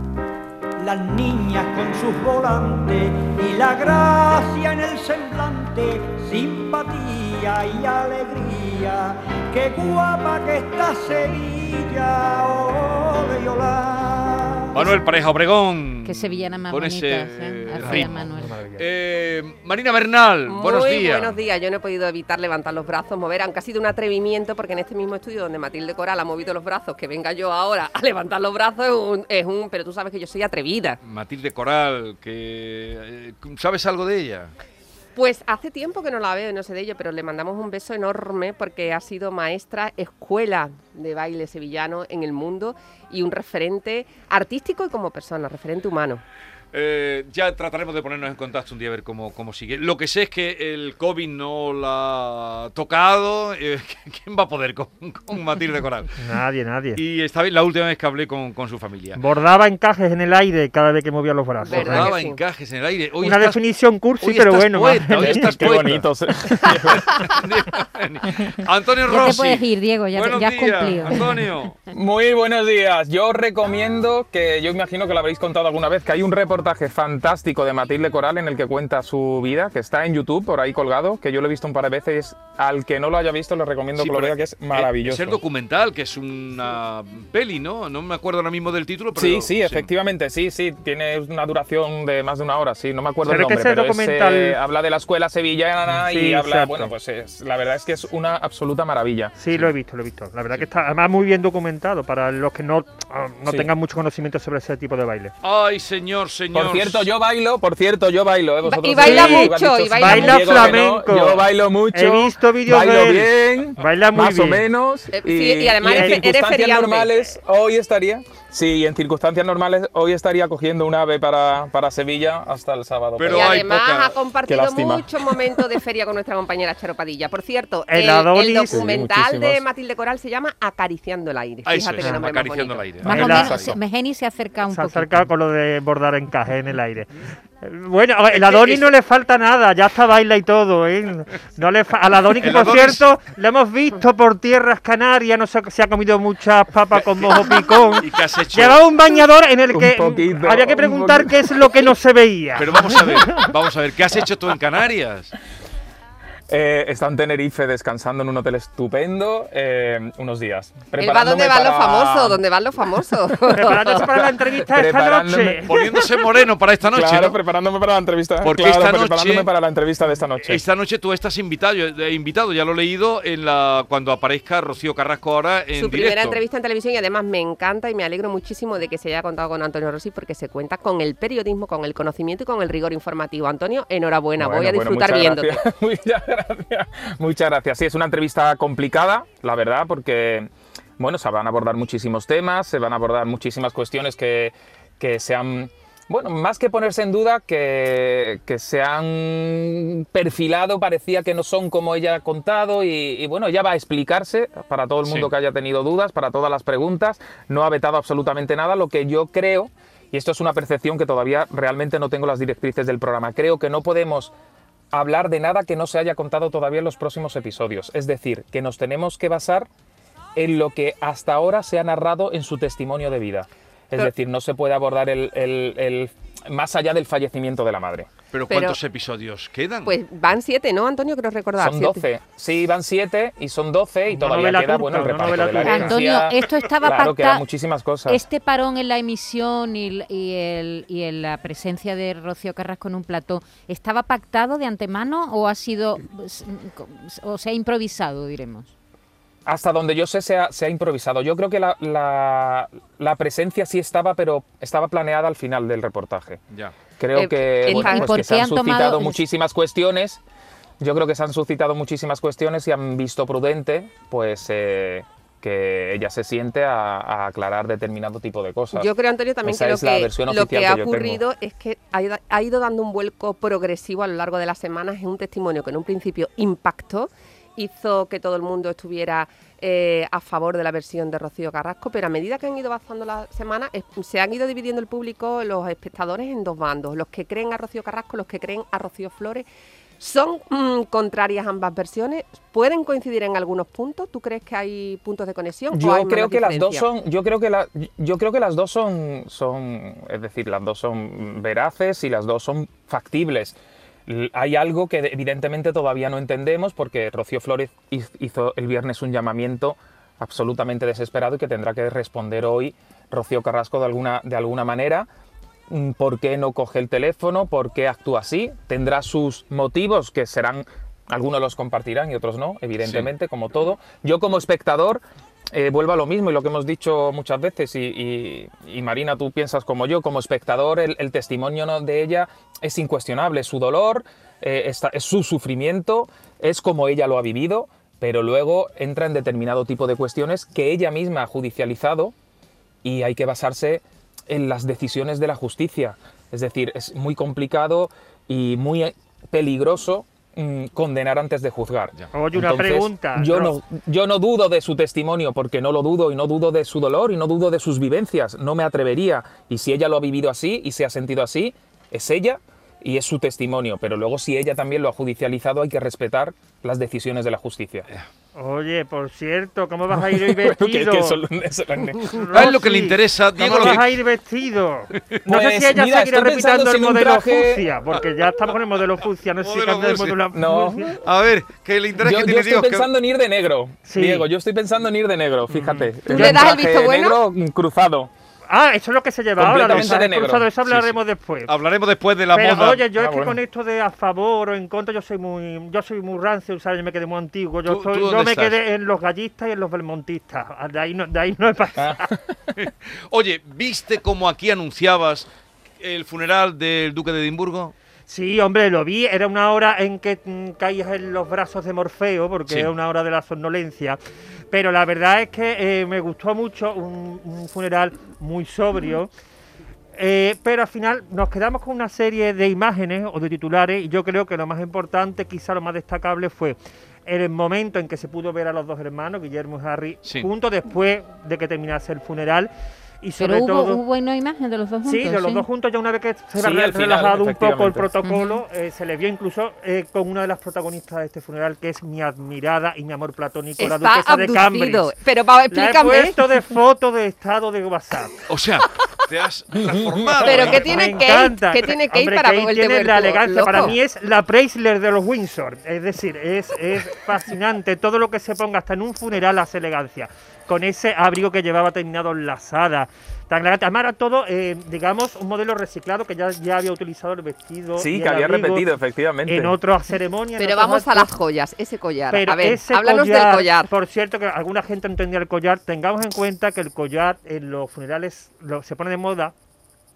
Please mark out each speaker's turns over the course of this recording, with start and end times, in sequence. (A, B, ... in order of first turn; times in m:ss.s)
0:00.8-0:14.8 A
0:14.7-0:18.2 B
0:16.0-0:18.6 C
0:17.8-0:18.8 D
0:18.8-0:21.4 B
0:20.5-0:31.0 E
0:31.0-0:34.5 B
0:35.2-0:46.2 E
0:46.7-0:56.2 B
0:56.2-0:57.0 D
0:57.0-0:59.2 B
0:59.2-1:02.2 D
1:01.6-1:02.4 E
1:01.7-1:03.6 B
1:03.2-1:05.8 D
1:04.2-1:06.1 B
1:05.2-1:07.3 F
1:06.7-1:11.8 B
1:09.1-1:11.2 C
1:11.9-1:25.4 F
1:24.0-1:29.9 B
1:29.2-1:39.4 F
1:33.2-1:34.6 D
1:35.9-1:36.9 D
1:39.4-1:45.3 D
1:43.5-1:43.7 F
1:45.4-1:47.1 B
1:46.5-2:03.8 F
1:48.6-1:50.8 E
1:49.0-1:54.6 D
1:55.1-1:57.2 E
1:55.8-1:56.2 D
2:03.2-2:04.2 B
2:03.3-2:13.0 E
2:04.5-2:05.4 F
2:07.9-2:08.9 D
2:08.7-2:09.6 F
2:11.7-2:13.8 B
2:13.0-2:15.2 C
2:13.1-2:13.5 D
2:13.1-2:13.8 F
2:14.7-2:33.5 D
2:18.3-2:18.9 B
2:22.4-2:23.1 B
2:27.0-2:28.8 B
2:29.7-2:31.6 F
2:32.6-2:35.3 B
2:36.5-2:42.4 F
2:41.0-2:44.1 E
2:43.5-2:45.7 F
2:43.5-2:46.0 D
2:45.7-2:47.4 B
2:46.8-2:50.6 F
2:48.4-2:49.5 B
2:50.4-2:56.4 B
2:55.8-3:05.6 E
3:04.4-3:34.3 F
3:25.0-3:25.3 B
3:34.9-3:39.7 F
3:40.4-3:48.1 F
3:48.3-3:49.9 B
3:48.5-3:48.8 E
3:49.8-3:52.0 E
3:51.6-3:58.3 F
3:54.1-3:56.0 D
3:55.6-3:57.4 C
3:58.1-4:08.7 C
4:09.4-4:16.4 F
4:17.0-4:20.2 F
4:17.2-4:18.1 E
4:17.7-4:19.2 C
4:20.8-4:28.9 F
4:28.7-4:49.5 E
4:29.4-4:31.2 F
4:50.0-4:56.9 E
4:55.7-5:15.1 F
5:15.7-5:42.1 F
5:22.8-5:23.1 B
5:42.8-6:07.9 F
5:52.1-5:53.5 D
6:08.4-6:11.2 D
6:09.9-6:12.5 F
6:12.0-6:21.0 D
6:12.3-6:14.0 B
6:15.3-6:17.7 F
6:19.4-6:20.2 B
6:20.3-6:20.9 F
6:21.0-6:22.9 B
6:22.0-6:28.1 F
6:23.9-6:24.3 D
6:25.5-6:26.5 D
6:26.1-6:27.2 E
6:28.5-6:31.5 D
6:29.4-6:30.5 F
6:29.6-6:30.0 B
6:30.7-6:32.9 B
6:32.3-6:42.1 D
6:33.0-6:33.4 F
6:37.7-6:38.6 B
6:41.8-6:42.3 F
6:42.6-6:45.3 B
6:45.8-6:47.7 B
6:48.1-6:54.0 D
6:54.5-6:59.1 D
7:00.0-7:13.8 D
7:13.2-7:15.5 C
7:14.8-7:24.9 D
7:16.4-7:17.9 F
7:18.0-7:18.4 C
7:23.6-7:26.2 E
7:25.5-7:28.2 D
7:28.3-7:30.9 B
7:29.6-7:30.5 F
7:30.2-7:33.8 E
7:30.2-7:48.6 D
7:47.8-7:49.6 F
7:49.3-7:51.1 D
7:50.4-7:53.7 E
7:52.1-7:59.3 D